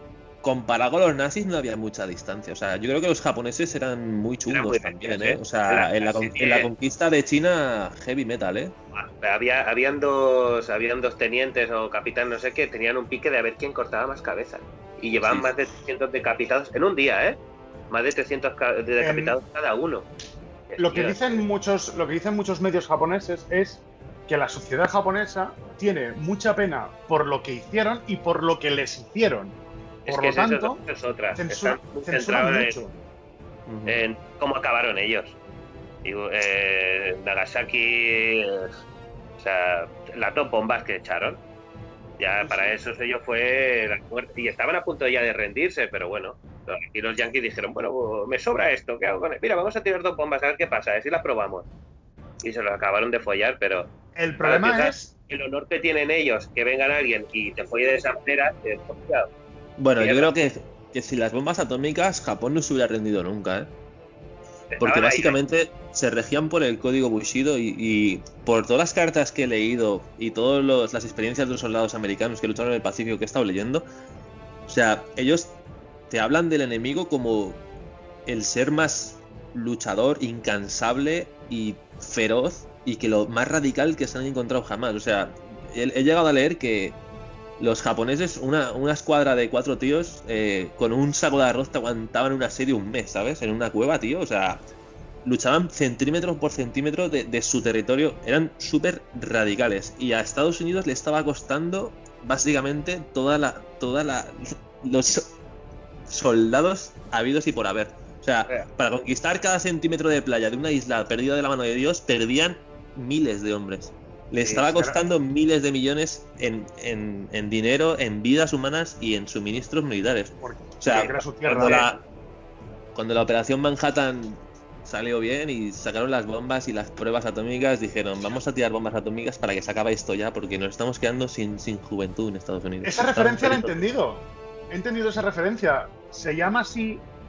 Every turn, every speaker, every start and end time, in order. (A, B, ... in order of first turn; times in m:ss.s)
0:00.4-0:08.7 A
0:04.5-0:06.7 B
0:08.9-0:17.4 B
0:15.2-0:15.5 A
0:17.9-0:20.1 B
0:19.0-0:19.4 C
0:20.7-0:21.4 B
0:20.8-0:30.8 C
0:30.0-0:32.8 B
0:31.4-0:32.9 C
0:33.7-0:34.0 A
0:33.9-0:35.4 B
0:36.0-0:38.7 B
0:39.4-0:41.4 B
0:42.2-0:51.7 B
0:42.4-0:42.8 C
0:52.4-0:53.9 B
0:54.2-0:55.1 C
0:54.4-0:59.3 B
0:59.8-1:03.7 A
1:00.0-1:00.3 B
1:04.7-1:05.4 B
1:04.8-1:13.8 A
1:14.7-1:15.6 A
1:16.1-1:17.6 A
1:18.2-1:27.0 A
1:27.6-1:34.6 A
1:35.2-1:45.4 A
1:46.1-2:02.0 A
1:54.4-1:55.0 C
2:00.4-2:01.9 C
2:02.9-2:13.8 A
2:12.8-2:17.0 C